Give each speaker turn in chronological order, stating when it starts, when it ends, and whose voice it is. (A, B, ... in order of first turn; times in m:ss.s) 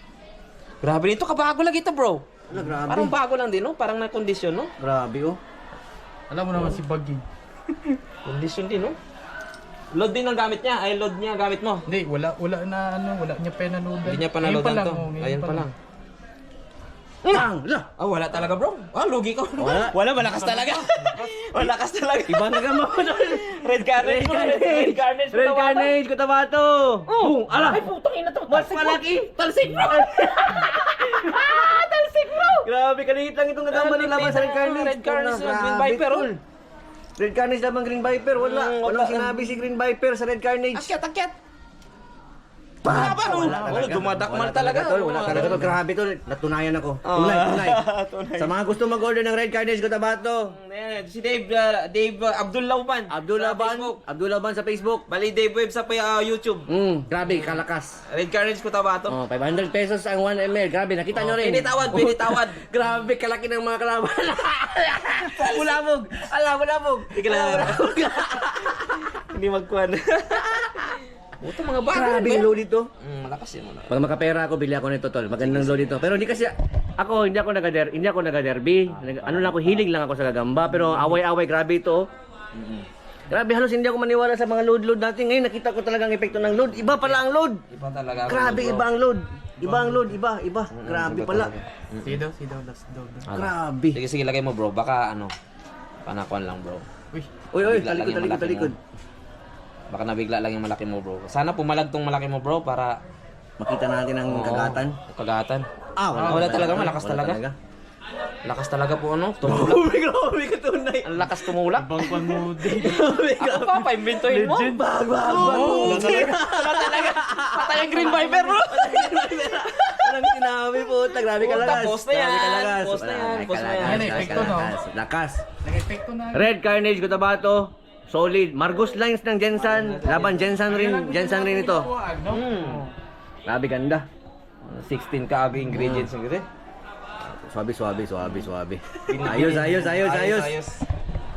0:00.8-0:02.2 A
0:02.5-0:03.2 B
0:02.5-0:02.8 C
0:02.8-0:04.7 A
0:04.8-0:05.4 B
0:06.3-0:08.0 C
0:06.5-0:06.8 A
0:08.2-0:09.0 A
0:09.9-0:11.8 A
0:11.9-0:15.7 C
0:14.0-0:15.7 A
0:17.2-0:26.0 A
0:17.3-0:17.9 B
0:19.6-0:20.0 B
0:20.2-0:21.3 C
0:22.3-0:27.8 B
0:27.1-0:32.7 A
0:28.5-0:31.6 B
0:32.6-0:36.4 B
0:33.7-0:36.3 A
0:37.2-0:40.9 B
0:38.4-0:39.6 A
0:40.7-0:41.4 A
0:42.8-0:45.8 A
0:42.8-0:47.8 B
0:47.0-0:48.5 A
0:48.4-0:50.5 B
0:50.5-0:54.0 A
0:53.1-0:55.0 B
0:55.1-0:56.7 A
0:56.7-0:58.0 B
0:57.2-0:59.2 A
0:59.1-1:08.7 B
1:01.1-1:02.6 A
1:07.1-1:13.9 A
1:11.8-1:12.9 B
1:13.9-1:22.1 B
1:15.3-1:16.2 A
1:18.9-1:19.9 A
1:20.7-1:21.1 A
1:22.5-1:22.9 A
1:23.3-1:27.6 B
1:26.6-1:28.9 A
1:28.3-1:31.5 B
1:29.6-1:30.1 C
1:30.7-1:32.2 A
1:32.0-1:33.3 C
1:33.3-1:35.3 A
1:33.3-1:34.0 B
1:36.0-1:36.8 A
1:37.5-1:38.8 B
1:37.6-1:38.7 A
1:39.9-1:43.0 A
1:43.6-1:45.0 B
1:44.3-1:45.6 A
1:46.0-1:47.5 B
1:46.1-1:46.9 C
1:46.2-1:47.4 A
1:48.4-1:49.8 A
1:49.4-1:51.5 B
1:51.0-1:52.2 A
1:51.8-1:53.0 C
1:52.3-2:05.4 B
1:52.8-2:00.3 A
1:55.3-1:56.4 C
2:00.9-2:04.6 A
2:03.8-2:04.8 C
2:05.6-2:06.5 C
2:06.3-2:11.9 B
2:09.6-2:10.5 A
2:10.2-2:12.9 C
2:12.2-2:12.9 A
2:13.4-2:14.1 B
2:14.6-2:16.4 A
2:15.7-2:16.1 B
2:17.3-2:20.5 B
2:19.0-2:20.8 A